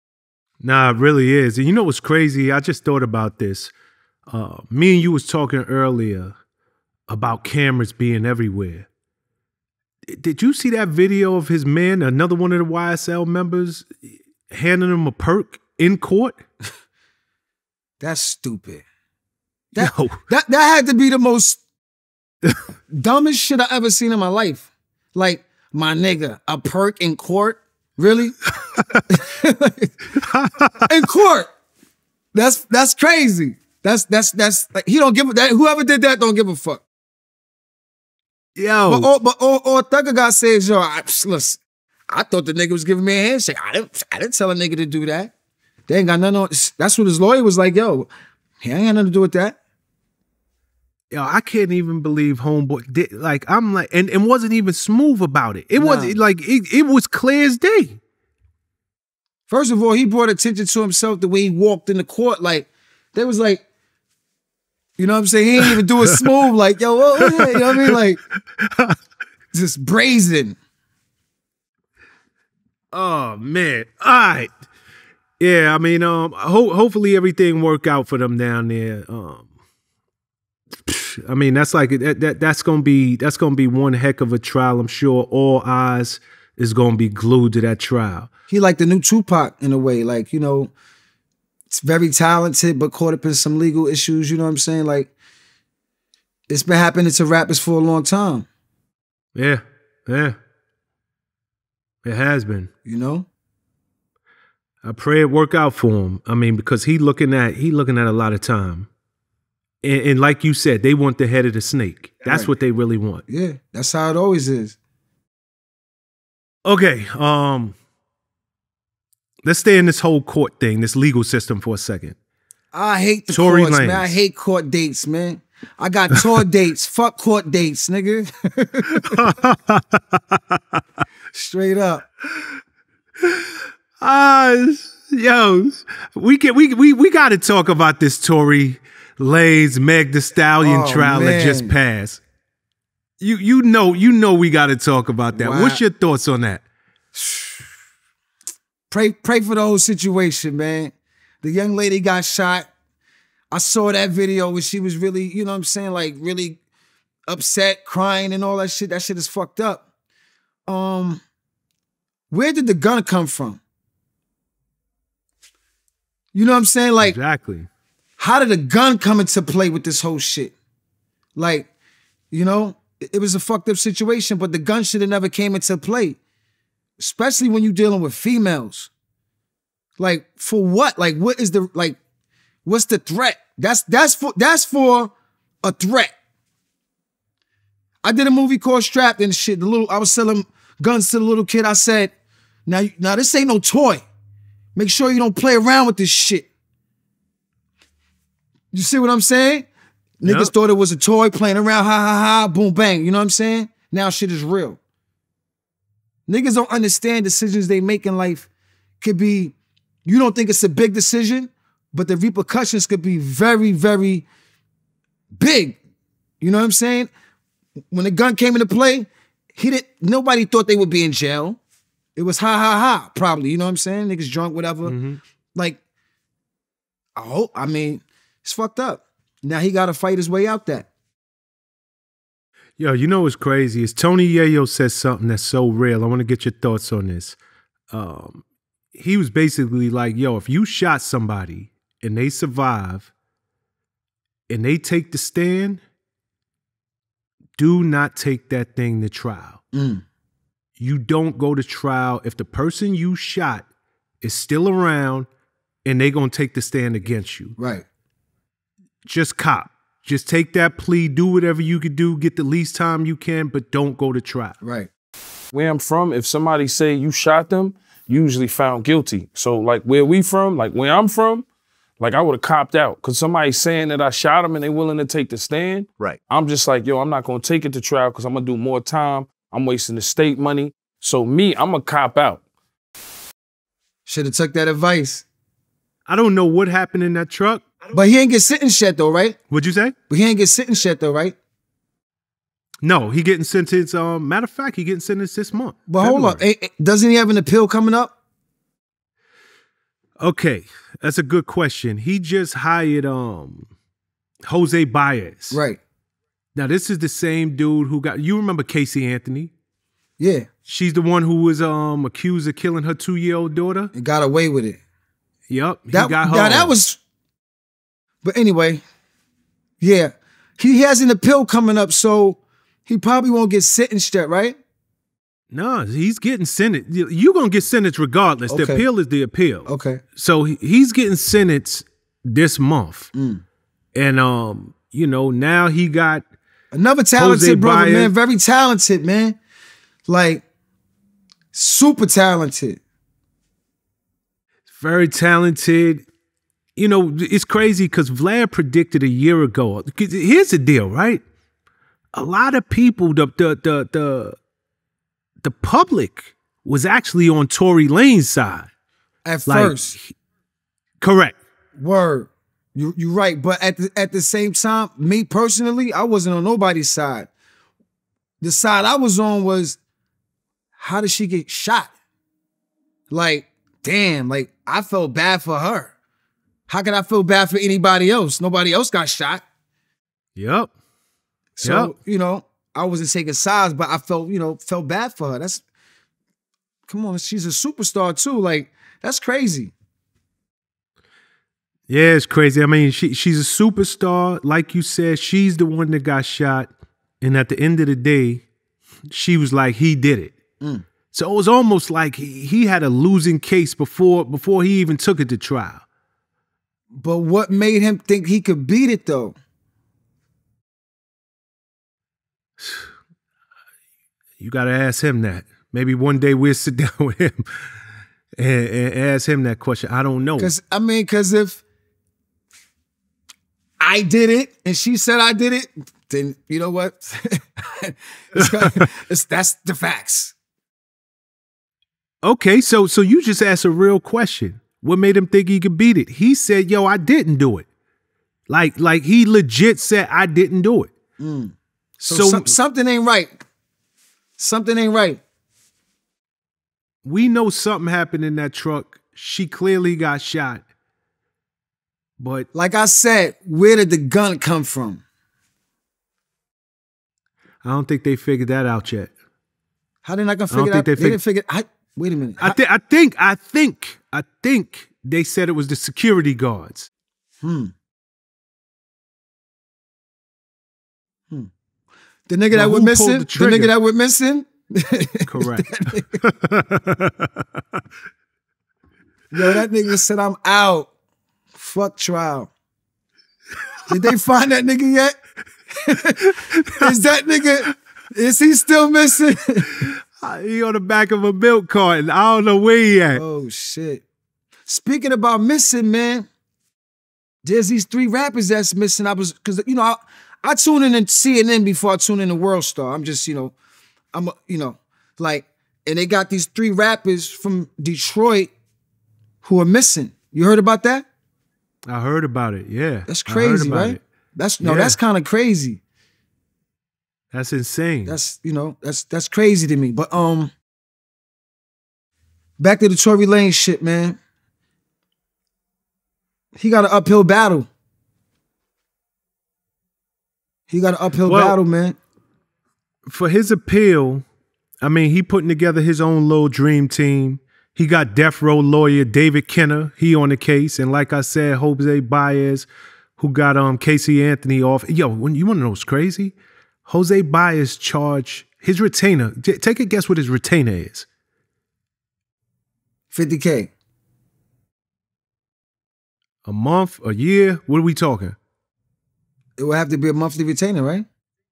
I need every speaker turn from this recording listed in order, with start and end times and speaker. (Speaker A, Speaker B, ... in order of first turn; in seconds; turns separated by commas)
Speaker A: 0.6-3.7, Speaker A: 4.3-6.3, Speaker A: 7.1-8.9, Speaker A: 10.1-16.4, Speaker B: 18.0-18.8, Speaker B: 19.7-21.6, Speaker A: 19.8-20.2, Speaker B: 22.9-28.4, Speaker A: 28.6-29.1, Speaker B: 29.1-29.9, Speaker A: 30.1-30.9, Speaker B: 30.9-31.5, Speaker B: 32.3-36.8, Speaker A: 38.5-39.1, Speaker B: 38.9-45.3, Speaker B: 45.9-48.1, Speaker B: 48.6-49.6, Speaker A: 51.1-58.0, Speaker B: 55.8-56.1, Speaker B: 59.5-63.6, Speaker B: 65.0-68.2, Speaker A: 65.6-66.2, Speaker A: 67.2-68.0, Speaker A: 68.6-69.0, Speaker B: 69.5-70.6, Speaker A: 72.9-74.5, Speaker A: 75.4-79.5, Speaker A: 80.8-88.3, Speaker B: 88.5-90.7, Speaker B: 91.7-95.1, Speaker B: 96.5-98.5, Speaker A: 99.3-100.4, Speaker A: 102.0-102.7, Speaker B: 102.8-103.3, Speaker A: 104.8-108.9, Speaker A: 109.8-113.2, Speaker B: 112.2-112.5, Speaker B: 113.3-114.8, Speaker A: 116.6-117.8, Speaker A: 119.4-122.2, Speaker B: 122.7-129.2, Speaker A: 123.3-124.2, Speaker A: 128.9-130.6, Speaker B: 131.3-132.0, Speaker A: 133.2-133.5, Speaker A: 134.0-142.2, Speaker B: 140.6-141.7, Speaker A: 143.2-146.6, Speaker B: 145.3-145.8, Speaker B: 147.1-147.7, Speaker B: 148.9-152.7, Speaker B: 153.5-156.6, Speaker B: 157.3-159.8, Speaker B: 160.7-161.2, Speaker B: 162.3-163.6, Speaker B: 166.3-167.2, Speaker A: 167.0-167.7, Speaker B: 168.2-170.5, Speaker B: 171.3-171.7, Speaker B: 172.3-176.2, Speaker B: 177.0-178.9, Speaker B: 180.0-182.0, Speaker B: 182.6-186.1, Speaker B: 188.0-192.1, Speaker B: 192.7-194.0, Speaker B: 194.8-196.5, Speaker B: 198.7-199.7, Speaker B: 200.2-204.8, Speaker A: 200.2-200.5, Speaker B: 206.3-208.5, Speaker B: 209.0-214.2, Speaker B: 215.3-215.8, Speaker B: 216.4-217.1, Speaker B: 217.9-221.6, Speaker B: 222.2-224.9, Speaker A: 224.8-225.2, Speaker B: 227.2-230.9, Speaker A: 232.8-237.4, Speaker A: 237.9-238.4, Speaker A: 238.9-243.1, Speaker A: 244.5-245.8, Speaker A: 247.6-249.6, Speaker B: 249.7-250.0, Speaker A: 250.8-253.7, Speaker A: 254.2-255.3, Speaker A: 255.8-257.6, Speaker B: 257.6-257.9, Speaker A: 259.0-264.6, Speaker B: 264.6-264.9, Speaker C: 265.5-271.4, Speaker C: 272.0-282.4, Speaker B: 284.1-285.2, Speaker A: 286.1-287.6, Speaker B: 287.9-289.4, Speaker A: 289.5-289.9, Speaker B: 290.1-291.4, Speaker A: 292.8-296.4, Speaker B: 295.9-298.1, Speaker A: 300.2-303.7, Speaker A: 304.5-305.6, Speaker B: 305.5-305.8, Speaker A: 306.5-309.5, Speaker B: 310.2-310.5, Speaker A: 310.6-313.9, Speaker B: 313.9-314.8, Speaker A: 315.5-316.7, Speaker B: 315.9-317.0, Speaker B: 318.2-318.8, Speaker B: 319.8-324.6, Speaker A: 325.5-333.1, Speaker B: 328.5-328.8, Speaker B: 329.6-330.0, Speaker B: 333.1-333.4, Speaker A: 333.9-336.2, Speaker B: 336.7-339.4, Speaker A: 337.1-338.1, Speaker B: 340.1-340.4, Speaker B: 341.5-342.8, Speaker A: 344.7-346.0, Speaker A: 346.8-351.2, Speaker A: 352.1-354.4, Speaker A: 355.4-358.7, Speaker B: 359.2-359.9, Speaker A: 359.5-360.1, Speaker A: 361.0-361.4, Speaker B: 361.8-367.3, Speaker B: 368.4-369.8, Speaker B: 370.8-371.9, Speaker B: 373.1-375.9, Speaker B: 376.7-379.4, Speaker A: 380.4-380.7, Speaker B: 381.6-385.6, Speaker A: 381.6-381.9, Speaker B: 386.9-389.7, Speaker A: 391.9-398.4, Speaker A: 399.1-400.4, Speaker A: 401.1-405.8, Speaker B: 406.9-409.4, Speaker A: 412.6-412.9, Speaker A: 414.4-417.4, Speaker A: 418.4-420.5, Speaker B: 420.4-421.6, Speaker B: 423.8-430.3, Speaker A: 428.4-428.9, Speaker A: 432.2-437.7, Speaker A: 438.5-440.9, Speaker B: 441.2-443.4, Speaker A: 442.0-442.6, Speaker B: 444.4-445.2, Speaker A: 447.0-450.6, Speaker A: 452.2-452.5, Speaker B: 452.5-455.0, Speaker A: 457.6-459.1, Speaker B: 460.0-462.6, Speaker A: 460.5-461.2, Speaker A: 462.4-466.9, Speaker B: 467.4-467.7, Speaker B: 472.3-476.2, Speaker A: 472.5-473.7, Speaker A: 475.2-477.3, Speaker B: 479.3-480.9, Speaker B: 481.5-482.5, Speaker B: 483.9-485.2, Speaker B: 485.7-489.9, Speaker A: 486.3-486.8, Speaker A: 489.9-493.2, Speaker B: 493.1-494.0, Speaker B: 494.6-496.3, Speaker B: 497.4-503.5, Speaker B: 504.1-508.5, Speaker B: 509.4-511.0, Speaker A: 511.9-514.0, Speaker B: 513.1-515.8, Speaker A: 514.6-515.0, Speaker A: 517.3-518.2, Speaker B: 518.0-520.5, Speaker B: 522.6-524.2, Speaker B: 526.5-527.7, Speaker B: 530.7-532.0, Speaker A: 531.2-531.6, Speaker A: 533.1-534.2, Speaker A: 534.8-551.1, Speaker B: 553.1-553.7, Speaker A: 556.4-558.4, Speaker B: 559.6-561.0